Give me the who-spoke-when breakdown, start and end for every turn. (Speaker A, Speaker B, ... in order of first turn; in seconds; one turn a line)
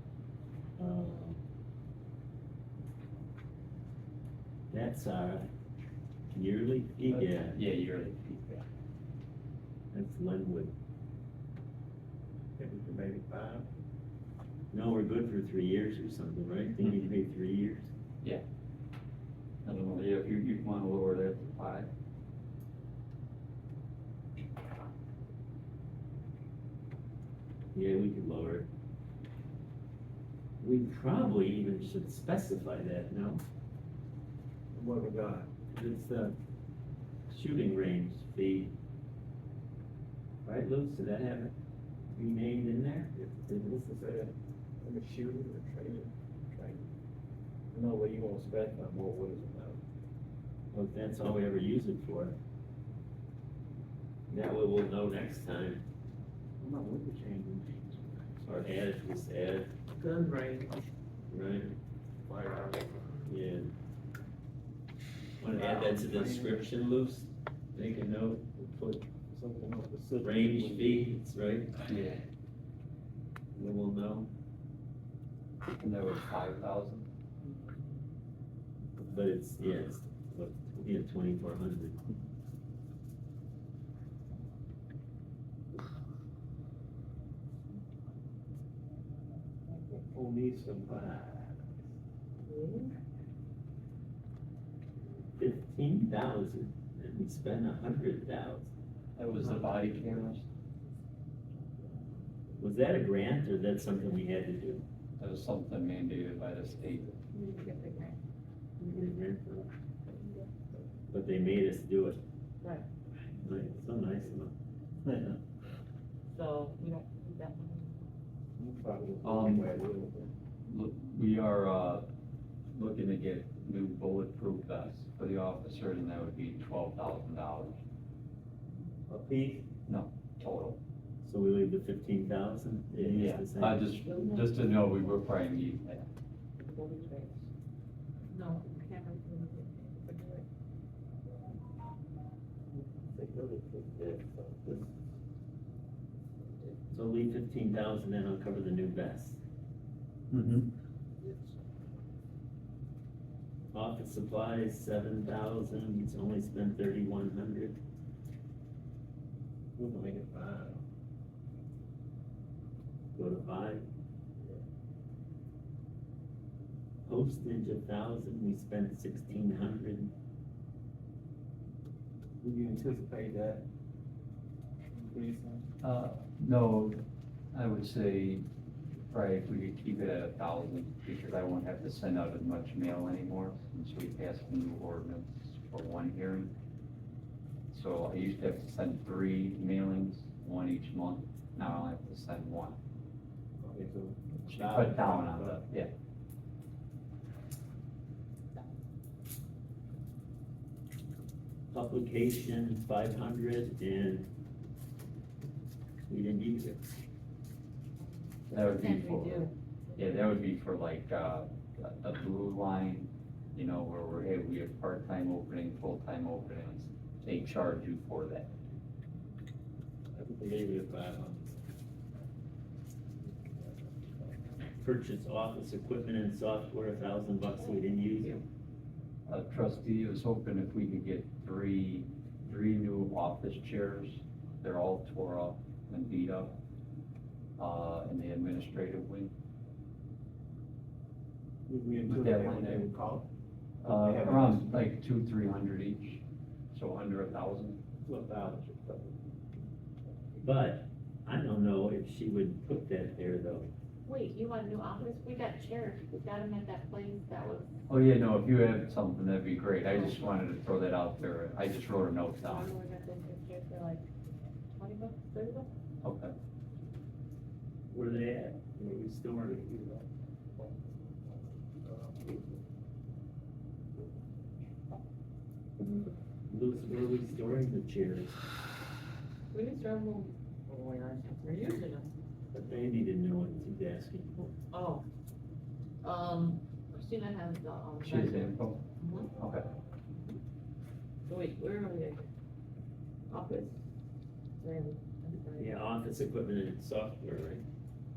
Speaker A: 0.8-1.4
Speaker A: 4.7-5.5
Speaker A: 6.3-7.6
Speaker B: 7.0-8.7
Speaker A: 9.9-10.7
Speaker C: 12.6-13.7
Speaker A: 14.7-17.9
Speaker B: 19.6-21.9
Speaker A: 27.7-28.7
Speaker A: 30.6-33.4
Speaker C: 34.7-35.6
Speaker A: 35.7-36.3
Speaker A: 37.3-38.8
Speaker A: 40.5-41.5
Speaker A: 42.1-43.1
Speaker C: 43.2-46.8
Speaker C: 47.7-49.8
Speaker A: 50.7-52.4
Speaker A: 54.3-55.9
Speaker C: 56.6-58.6
Speaker A: 58.5-59.7
Speaker C: 59.9-60.8
Speaker A: 61.3-61.8
Speaker C: 62.2-63.2
Speaker A: 63.3-63.7
Speaker A: 65.4-69.1
Speaker C: 65.4-66.6
Speaker C: 69.3-71.0
Speaker A: 70.2-71.7
Speaker B: 71.9-72.2
Speaker A: 73.5-74.3
Speaker B: 75.8-77.1
Speaker A: 79.0-82.0
Speaker D: 89.7-90.1
Speaker C: 90.1-91.8
Speaker D: 92.4-93.0
Speaker A: 95.4-98.7
Speaker B: 99.2-100.5
Speaker A: 102.6-104.8
Speaker B: 105.2-107.2
Speaker D: 107.3-108.2
Speaker A: 108.8-109.7
Speaker D: 110.1-110.5
Speaker A: 111.1-112.2
Speaker D: 112.6-112.9
Speaker A: 113.3-114.5
Speaker D: 116.3-118.1
Speaker C: 118.6-120.3
Speaker B: 119.2-119.7
Speaker B: 120.6-122.1
Speaker B: 122.7-127.8
Speaker A: 129.1-129.7
Speaker B: 129.9-130.8
Speaker A: 131.2-133.9
Speaker B: 133.0-136.1
Speaker D: 134.1-134.5
Speaker D: 136.6-137.4
Speaker D: 138.3-140.5
Speaker C: 143.1-144.8
Speaker A: 146.9-149.4
Speaker B: 150.3-150.7
Speaker C: 151.2-151.5
Speaker A: 153.7-157.8
Speaker C: 159.8-160.8
Speaker A: 163.2-163.8
Speaker A: 167.1-170.1
Speaker C: 172.4-173.7
Speaker C: 174.9-175.6
Speaker B: 175.8-178.5
Speaker B: 179.1-186.5
Speaker B: 187.7-192.8
Speaker C: 193.6-195.6
Speaker B: 194.5-195.9
Speaker A: 201.7-204.3
Speaker A: 206.1-206.9
Speaker D: 208.1-209.5
Speaker B: 208.5-218.5
Speaker C: 220.1-221.5
Speaker A: 224.8-228.4
Speaker B: 229.3-236.6
Speaker B: 237.6-239.3
Speaker C: 241.7-243.3
Speaker B: 242.1-242.9
Speaker C: 243.8-244.8
Speaker B: 243.8-247.8
Speaker C: 248.1-249.2
Speaker A: 250.4-253.7
Speaker D: 254.1-257.8
Speaker B: 257.9-262.7
Speaker D: 262.4-264.1
Speaker D: 264.7-265.7
Speaker B: 266.0-266.3
Speaker A: 267.9-269.9
Speaker C: 271.8-272.4
Speaker A: 275.8-278.4
Speaker D: 279.5-282.1
Speaker A: 282.5-284.6
Speaker D: 284.7-285.1
Speaker D: 286.0-289.3
Speaker B: 288.0-288.9
Speaker B: 289.4-289.7
Speaker D: 291.3-292.3
Speaker D: 293.3-293.8
Speaker D: 294.6-295.8
Speaker A: 295.6-297.6